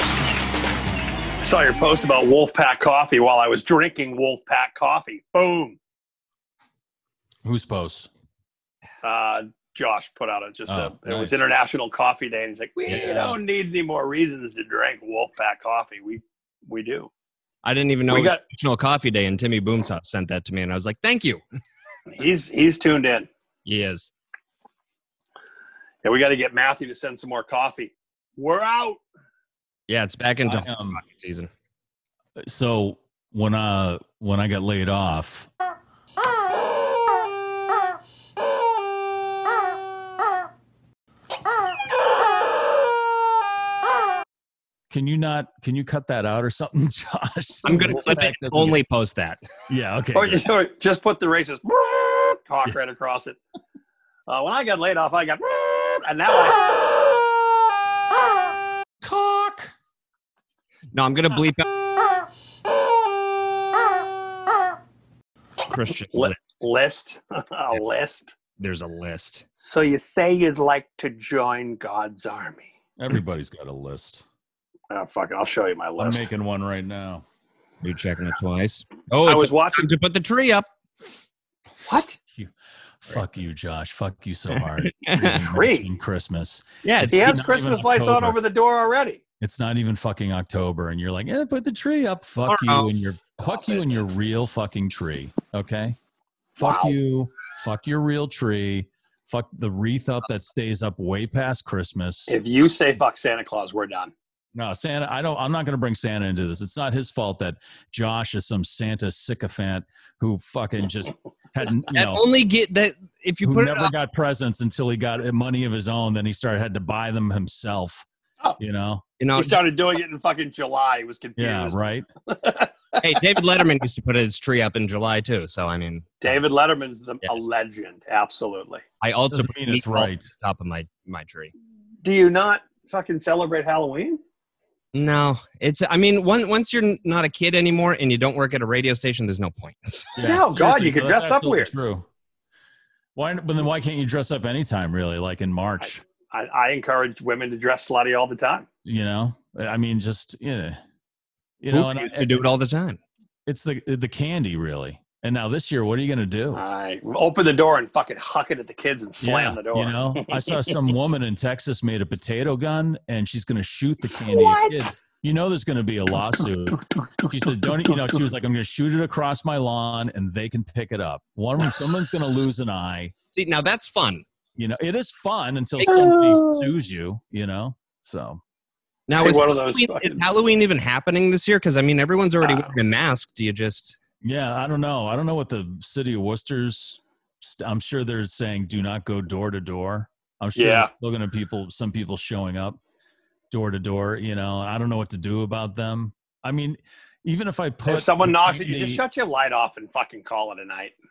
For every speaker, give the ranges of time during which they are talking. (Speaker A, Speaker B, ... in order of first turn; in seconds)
Speaker A: 1.4-5.8, 9.0-17.1, 18.1-18.4, 22.1-23.3, 26.0-29.0, 50.1-53.4, 54.3-56.6, 66.1-68.3, 69.6-72.7, 74.9-76.3, 79.2-79.9, 81.8-82.2, 85.2-85.9, 87.1-89.2, 93.4-94.0, 96.6-96.9, 102.3-104.1, 119.3-123.6, 126.2-128.8, 132.0-134.2, 140.2-141.7, 146.3-148.7, 156.5-160.6, 164.3-164.8, 179.2-180.2, 182.4-182.7, 190.6-190.9, 197.8-200.9
Speaker B: 7.4-8.1, 10.7-11.4, 12.9-13.4, 30.4-31.0, 32.4-35.5, 44.9-48.8, 49.7-50.5, 59.0-59.7, 73.0-74.2, 76.0-77.2, 82.3-88.4, 89.4-96.0, 96.5-102.4, 104.5-112.2, 113.4-118.0, 118.6-119.0, 121.4-122.1, 129.3-130.3, 140.2-142.1, 143.2-146.0, 148.8-150.8, 151.6-152.4, 153.4-156.6, 159.2-173.1, 174.6-178.4, 184.2-192.8, 193.5-199.0
Speaker C: 17.6-21.4, 23.6-24.1, 29.9-31.5, 47.6-49.4, 60.9-61.6, 65.7-66.6, 68.6-69.4, 77.8-80.7, 84.7-85.4, 86.8-87.4, 92.5-93.1, 111.7-113.9, 119.2-119.6, 123.0-126.4, 129.0-131.5, 134.9-140.2, 151.7-153.0, 173.3-174.2, 175.8-176.6, 179.1-184.0